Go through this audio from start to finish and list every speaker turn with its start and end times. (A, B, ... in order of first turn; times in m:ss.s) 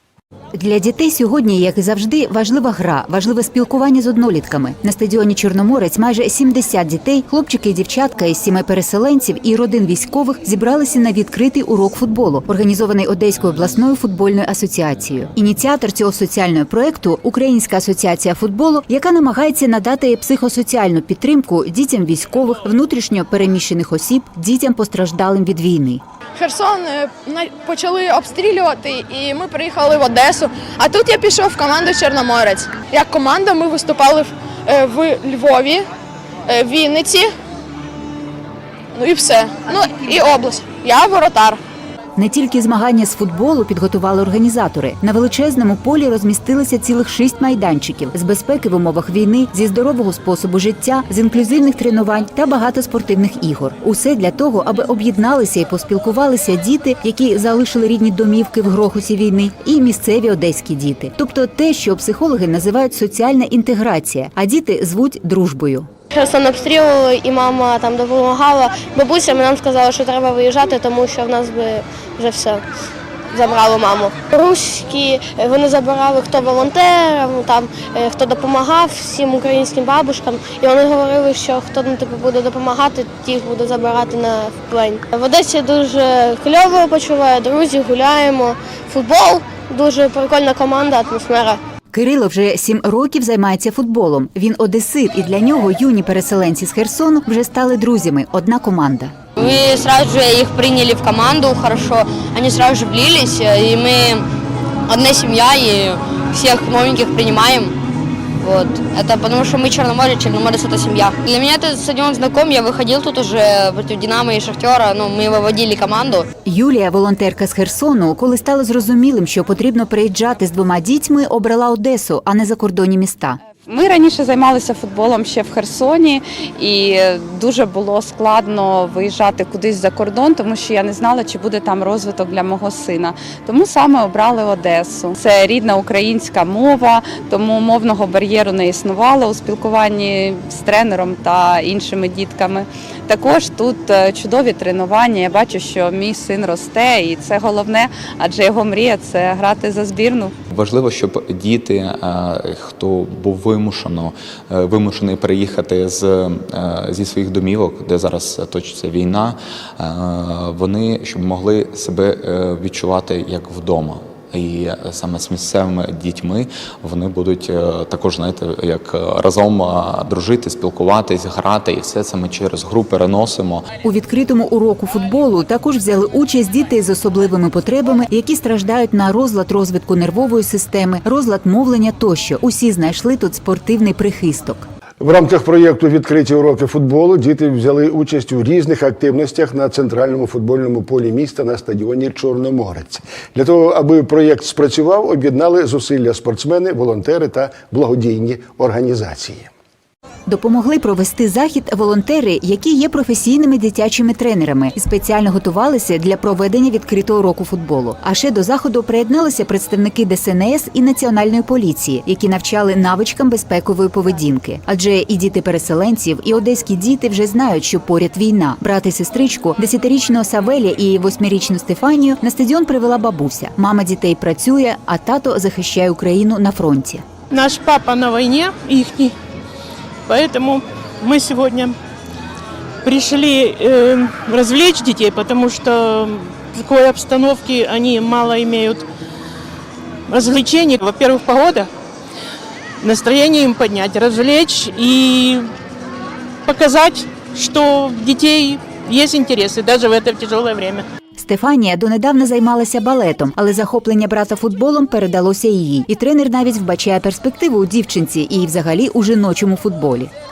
0:00.5-0:26.0 A
0:26.4-0:35.9 B
0:36.5-0:37.3 B
0:38.9-0:41.6 B
0:42.2-1:05.9 A
1:06.1-1:12.6 C
1:13.3-1:31.6 C
1:31.9-1:39.1 A
1:39.4-1:44.2 D
1:44.9-1:47.8 D
1:48.4-1:56.2 D
1:56.4-2:03.4 A
2:03.6-2:30.3 E
2:30.5-2:53.7 F
2:53.8-3:04.6 A
3:05.0-3:19.5 G
3:20.3-3:47.0 A
3:47.3-3:49.1 H
3:50.1-3:51.8 H
3:52.8-3:58.8 H
4:00.1-4:01.7 H
4:02.8-4:05.5 H
4:06.4-4:10.8 H
4:11.2-4:20.1 A